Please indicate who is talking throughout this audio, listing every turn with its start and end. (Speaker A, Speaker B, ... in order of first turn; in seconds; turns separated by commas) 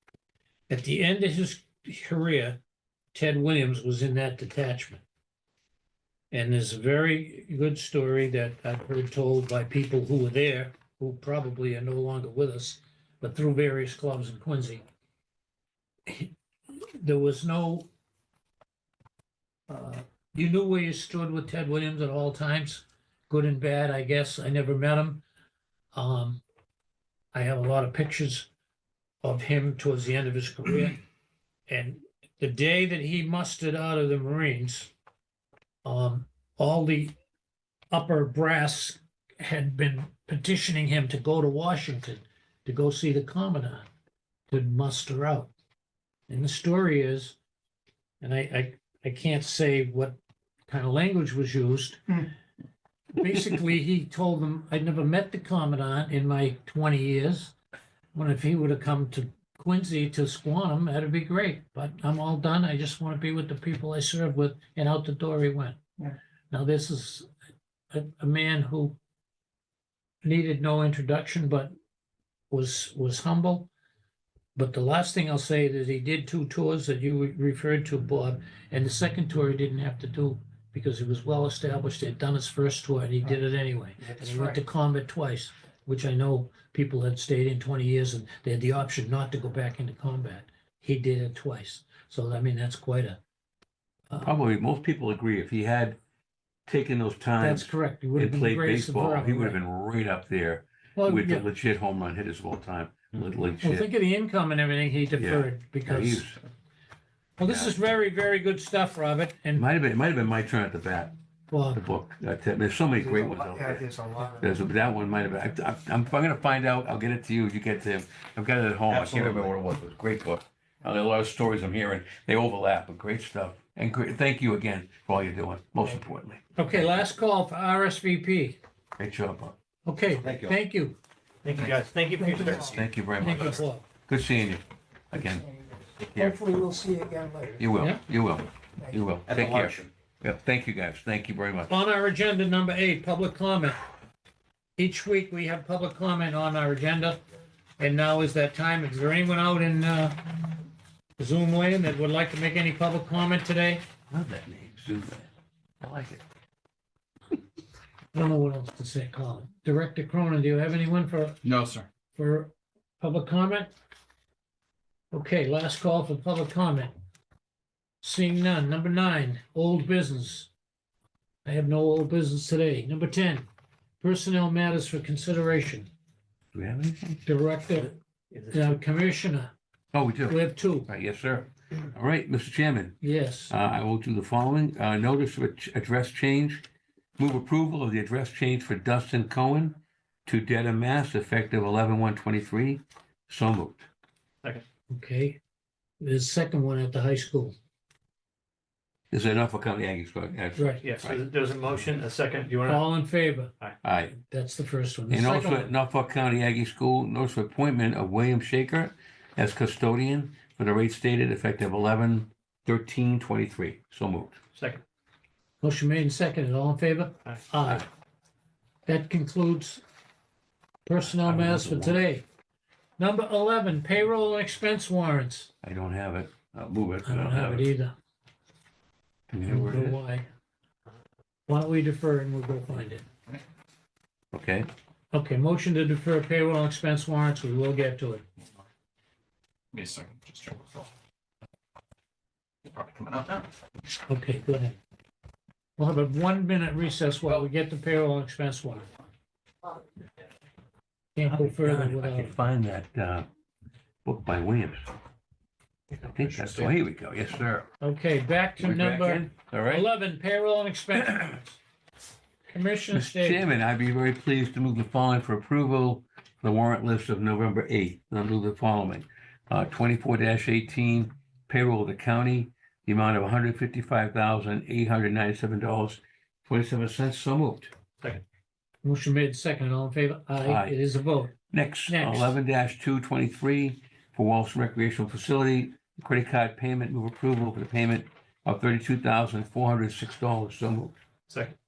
Speaker A: 0.7-2.6, Speaker A: 3.1-5.0, Speaker A: 6.3-14.8, Speaker A: 16.1-17.9, Speaker A: 19.7-25.2, Speaker A: 25.9-26.4, Speaker A: 27.3-28.5, Speaker A: 29.2-31.0, Speaker A: 31.7-34.9, Speaker A: 35.8-37.2, Speaker A: 37.9-43.9, Speaker A: 44.5-45.5, Speaker A: 46.3-47.4, Speaker A: 48.2-52.3, Speaker A: 53.1-57.5, Speaker A: 58.1-65.8, Speaker A: 66.5-67.3, Speaker A: 67.9-69.0, Speaker A: 70.2-71.7, Speaker A: 72.5-73.7, Speaker A: 74.5-93.2, Speaker B: 84.0-84.6, Speaker C: 94.2-96.0, Speaker C: 96.7-103.9, Speaker A: 97.4-99.6, Speaker A: 101.0-101.5, Speaker A: 103.6-106.2, Speaker C: 105.2-106.4, Speaker A: 107.4-109.7, Speaker C: 107.4-107.7, Speaker C: 109.5-111.1, Speaker A: 111.5-111.8, Speaker C: 111.7-113.8, Speaker B: 113.0-114.5, Speaker C: 114.4-126.4, Speaker D: 118.9-119.6, Speaker A: 126.6-128.6, Speaker C: 129.0-129.6, Speaker A: 129.9-131.0, Speaker D: 130.2-130.6, Speaker E: 131.4-132.8, Speaker B: 132.2-132.8, Speaker C: 132.4-135.5, Speaker A: 133.2-133.9, Speaker B: 135.5-137.6, Speaker C: 136.1-136.4, Speaker C: 137.6-141.7, Speaker D: 139.3-139.9, Speaker A: 141.7-143.8, Speaker A: 144.8-147.2, Speaker A: 147.8-150.2, Speaker A: 151.2-153.8, Speaker C: 154.1-155.3, Speaker C: 155.8-156.2, Speaker A: 158.1-161.4, Speaker D: 161.4-161.9, Speaker A: 162.1-163.7, Speaker A: 165.1-166.9, Speaker A: 168.0-170.5, Speaker A: 171.4-173.5, Speaker A: 174.0-175.9, Speaker C: 176.5-177.2, Speaker A: 177.3-177.9, Speaker E: 178.3-178.7, Speaker A: 178.5-179.5, Speaker C: 179.9-186.6, Speaker A: 180.3-180.9, Speaker A: 183.0-183.6, Speaker C: 187.2-193.9, Speaker A: 194.9-195.4, Speaker A: 196.0-197.5, Speaker C: 199.1-201.2, Speaker A: 200.6-200.8, Speaker E: 200.8-202.9, Speaker A: 202.7-203.5, Speaker C: 203.8-204.2, Speaker A: 204.2-205.7, Speaker C: 205.1-214.4, Speaker E: 214.5-214.8, Speaker A: 215.6-217.9, Speaker A: 218.9-219.8, Speaker A: 220.9-222.2, Speaker C: 221.0-222.0, Speaker A: 223.0-225.5, Speaker C: 225.6-227.7, Speaker A: 227.1-227.9, Speaker C: 229.3-230.0, Speaker A: 229.4-230.3, Speaker A: 231.5-233.1, Speaker C: 234.3-234.7, Speaker A: 235.1-238.2, Speaker D: 239.7-240.9, Speaker D: 242.7-243.5, Speaker A: 244.1-244.8, Speaker A: 245.8-248.9, Speaker A: 251.2-252.4, Speaker C: 251.3-253.3, Speaker C: 254.1-254.9, Speaker E: 255.9-256.7, Speaker C: 256.1-257.7, Speaker A: 257.8-261.6, Speaker C: 258.6-259.9, Speaker C: 260.9-261.4, Speaker A: 262.5-263.5, Speaker C: 262.9-277.7, Speaker A: 278.8-281.4, Speaker C: 280.4-280.8, Speaker C: 281.5-290.9, Speaker A: 281.9-282.3, Speaker E: 291.3-291.5